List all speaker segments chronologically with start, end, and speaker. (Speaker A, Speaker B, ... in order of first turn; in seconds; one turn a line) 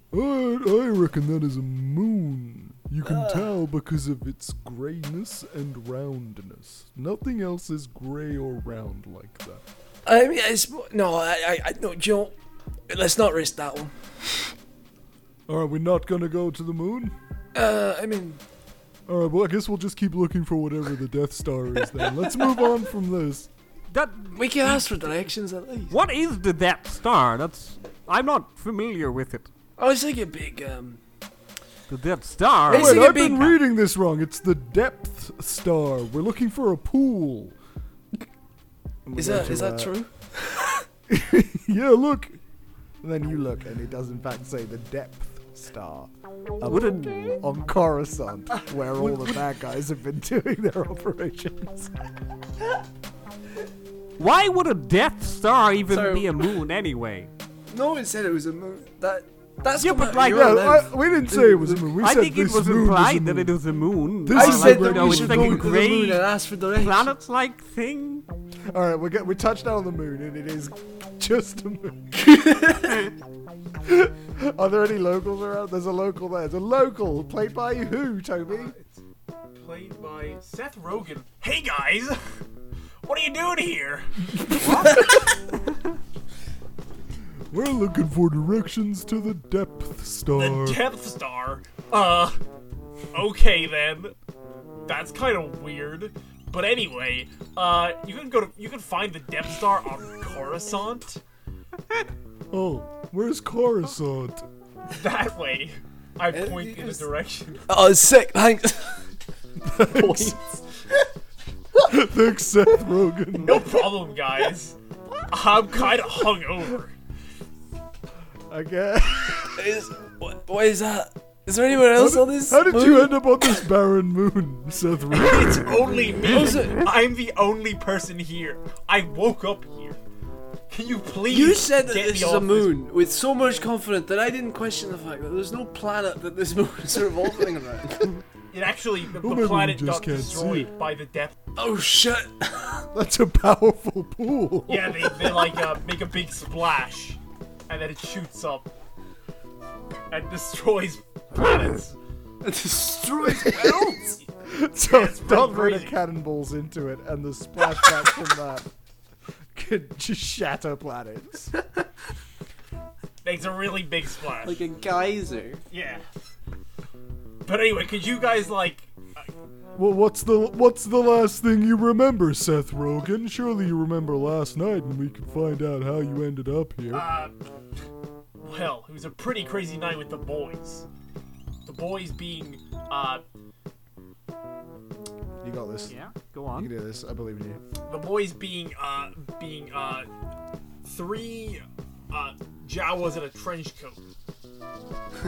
Speaker A: 0.1-9.6
Speaker B: 3.0-3.5
Speaker C: 4.4-6.1
Speaker B: 10.0-12.3
Speaker B: 12.9-14.5
Speaker A: 15.5-17.1
Speaker C: 15.7-16.4
Speaker B: 17.5-18.4
Speaker A: 19.1-23.5
Speaker B: 22.1-22.7
Speaker D: 23.9-25.2
Speaker B: 24.3-25.9
Speaker D: 25.9-29.5
Speaker B: 29.8-31.0
Speaker D: 31.9-33.2
Speaker B: 32.7-33.6
Speaker C: 32.9-37.5
Speaker A: 32.9-36.5
Speaker C: 39.0-39.9
Speaker B: 39.1-40.8
Speaker C: 41.1-42.4
Speaker C: 43.0-51.9
Speaker D: 46.6-47.4
Speaker D: 54.2-57.3
Speaker B: 55.9-56.2
Speaker B: 57.7-62.0
Speaker D: 59.8-60.6
Speaker C: 60.2-63.5
Speaker D: 62.0-68.2
Speaker A: 62.1-63.5
Speaker B: 64.3-67.1
Speaker A: 64.4-65.7
Speaker C: 68.7-72.1
Speaker C: 73.8-78.7
Speaker E: 78.5-79.0
Speaker E: 79.5-82.2
Speaker E: 83.0-84.6
Speaker A: 87.5-90.8
Speaker E: 90.3-92.4
Speaker E: 93.1-94.1
Speaker E: 94.8-101.2
Speaker A: 102.5-104.4
Speaker C: 102.5-102.8
Speaker E: 104.9-107.7
Speaker B: 106.3-107.1
Speaker B: 107.7-109.0
Speaker F: 109.7-110.6
Speaker A: 111.9-113.6
Speaker C: 112.2-113.5
Speaker E: 113.4-114.8
Speaker E: 115.3-116.9
Speaker C: 118.5-119.6
Speaker B: 119.4-123.7
Speaker A: 121.9-125.7
Speaker C: 122.5-123.7
Speaker E: 125.1-130.0
Speaker B: 126.1-126.9
Speaker E: 130.7-132.8
Speaker B: 131.3-138.1
Speaker E: 138.5-141.3
Speaker A: 139.2-140.7
Speaker C: 139.3-140.4
Speaker B: 141.6-142.9
Speaker C: 142.9-145.1
Speaker E: 144.7-148.7
Speaker E: 150.1-152.0
Speaker B: 152.4-154.2
Speaker C: 154.4-158.7
Speaker E: 154.8-156.0
Speaker C: 159.5-161.5
Speaker E: 163.2-164.6
Speaker F: 164.4-165.6
Speaker E: 165.7-166.0
Speaker E: 167.4-169.2
Speaker A: 169.8-177.0
Speaker E: 176.9-177.3
Speaker E: 178.4-180.8
Speaker E: 181.6-183.2
Speaker C: 185.4-186.0
Speaker D: 185.9-186.7
Speaker C: 186.5-187.6
Speaker E: 187.8-190.1
Speaker E: 190.8-194.0